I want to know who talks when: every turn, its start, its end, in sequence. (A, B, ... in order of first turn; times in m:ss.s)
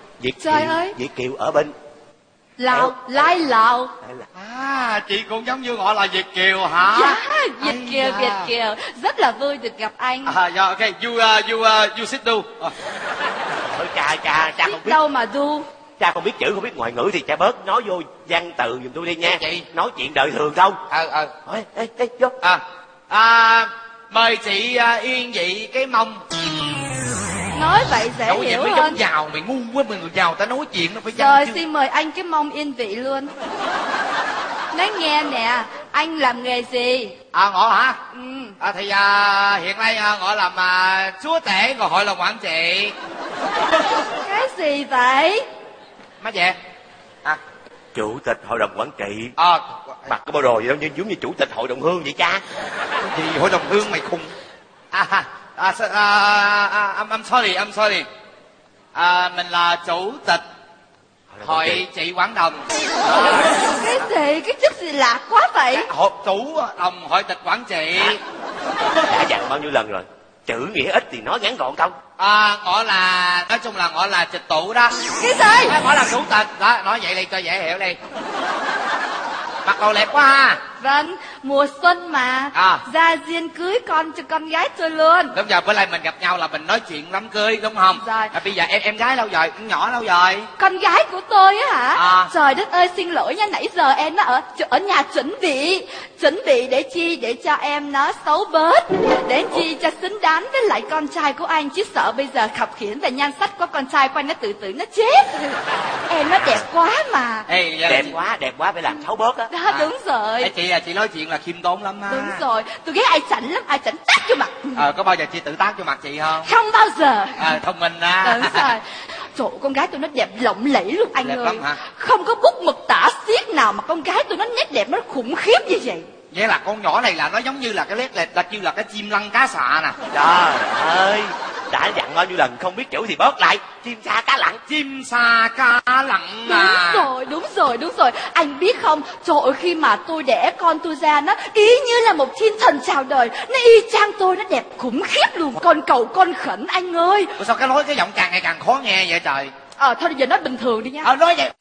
0:00.2-0:01.7 A
0:00.4-0:01.0 B
0:02.6-0:03.9 B
0:04.3-0:08.5 C
0:06.9-0:10.3 B
0:10.2-0:12.7 C
0:13.6-0:15.0 A
0:14.6-0:15.6 B
0:16.0-0:20.8 A
0:19.2-0:19.7 C
0:20.9-0:21.3 C
0:21.4-0:22.3 A
0:22.4-0:26.2 C
0:27.5-0:29.0 B
0:28.2-0:31.6 C
0:31.1-0:33.3 B
0:34.7-0:37.1 B
0:37.3-0:38.0 C
0:38.1-0:38.6 B
0:38.6-0:42.9 C
0:44.0-0:45.4 B
0:46.2-0:46.5 C
0:47.9-0:49.3 A
0:49.4-0:50.1 C
0:50.1-0:52.4 A
0:53.0-0:54.3 C
0:54.9-0:58.1 C
0:58.9-1:00.4 C
1:01.3-1:01.8 A
1:01.4-1:03.6 C
1:03.2-1:05.9 B
1:05.7-1:08.2 C
1:09.0-1:12.0 A
1:12.2-1:15.0 C
1:15.2-1:15.8 B
1:15.6-1:18.0 C
1:19.6-1:20.6 C
1:20.8-1:25.3 B
1:22.5-1:22.8 C
1:25.3-1:30.5 C
1:27.9-1:28.3 B
1:30.6-1:47.5 B
1:31.9-1:32.3 C
1:47.5-1:48.2 C
1:47.9-1:49.5 A
1:49.5-1:50.5 B
1:49.7-1:52.4 C
1:52.1-1:54.8 B
1:54.7-1:56.5 C
1:56.4-1:57.6 B
1:57.4-1:58.7 C
1:58.2-2:06.1 B
2:01.2-2:01.8 C
2:06.3-2:10.0 C
2:10.1-2:14.6 A
2:14.7-2:17.1 C
2:16.4-2:27.3 B
2:27.4-2:29.5 C
2:29.8-2:31.1 B
2:31.0-2:31.5 C